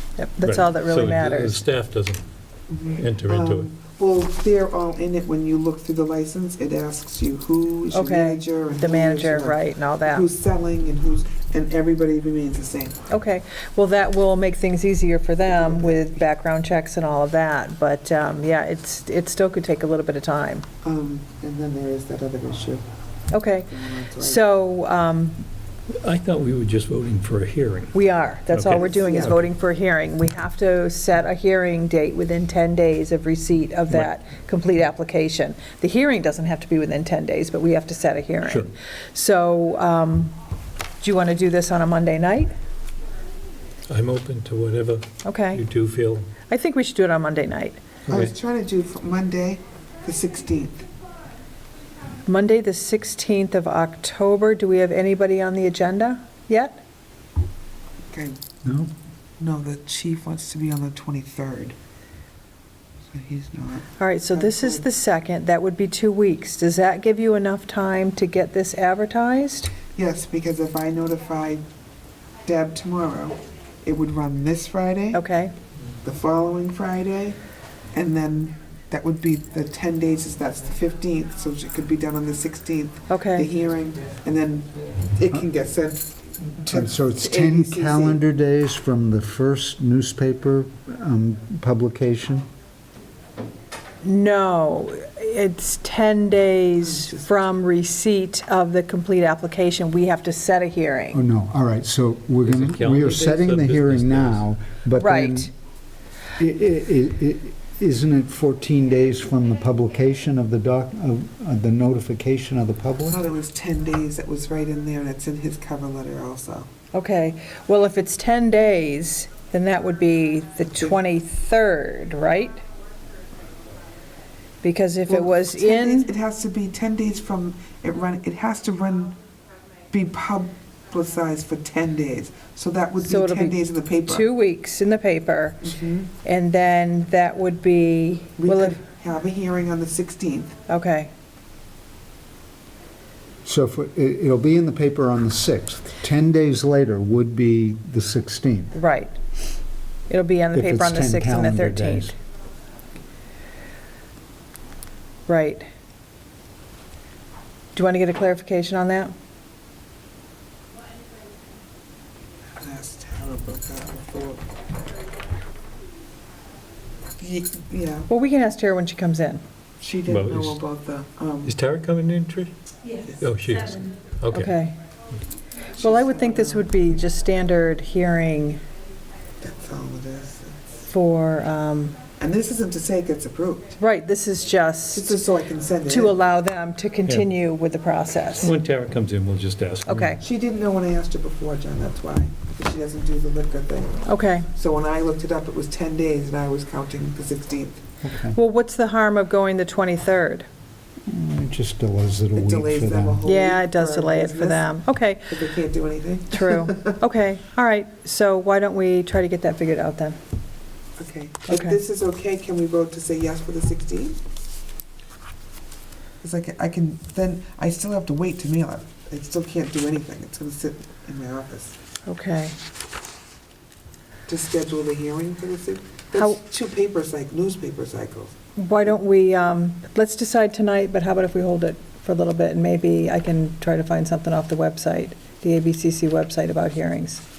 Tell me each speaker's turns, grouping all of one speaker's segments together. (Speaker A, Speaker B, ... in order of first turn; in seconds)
Speaker A: 0.2-1.6, 7.9-10.3, 13.1-20.7, 23.3-25.4, 27.9-40.3, 41.0-42.5, 45.2-45.6, 46.5-47.8, 52.2-56.8, 64.0-69.7, 75.1-75.5, 83.1-83.5, 94.0-101.2, 104.9-105.5, 116.9-122.6, 124.6-126.1, 133.0-135.7, 136.2-138.8, 140.7-141.1, 148.7-149.2, 150.1-152.2, 155.3-155.7, 157.8-159.1, 168.1-169.4, 174.3-174.8, 175.8-178.6, 180.9-181.9, 183.8-185.2, 185.8-188.5, 189.8-190.2, 194.0-194.5, 198.3-200.4, 203.2-205.3, 206.3-210.2, 211.5-211.8, 222.1-222.6, 228.6-237.2
Speaker B: 0.4-2.3, 3.0-3.7, 25.9-27.9, 28.5-29.4, 38.4-38.7, 43.9-46.3, 48.1-48.3, 102.5-104.4, 170.1-170.6, 171.4-172.5, 173.2-174.5, 188.4-190.2
Speaker C: 2.7-13.0, 15.4-16.2, 20.8-22.8, 23.7-24.4, 28.8-29.4, 48.1-50.9, 58.1-58.4, 59.4-61.8, 63.1-64.8, 69.9-71.6, 72.4-75.2, 76.0-77.4, 77.9-88.2, 96.8-97.3, 113.1-116.7, 125.1-129.2, 129.9-134.3, 135.6-136.1, 138.4-140.6, 162.6-164.5, 167.2-168.1, 169.8-171.5, 175.8-176.7, 179.4-180.7, 182.2-183.8, 184.9-186.2, 190.2-197.8, 202.3-204.7, 205.3-206.9, 211.0-214.2, 216.2-221.8, 224.3-228.3
Speaker D: 86.7-92.4, 101.1-105.5, 106.4-113.2, 143.4-148.7, 150.5-152.1, 198.0-198.4, 201.1-203.2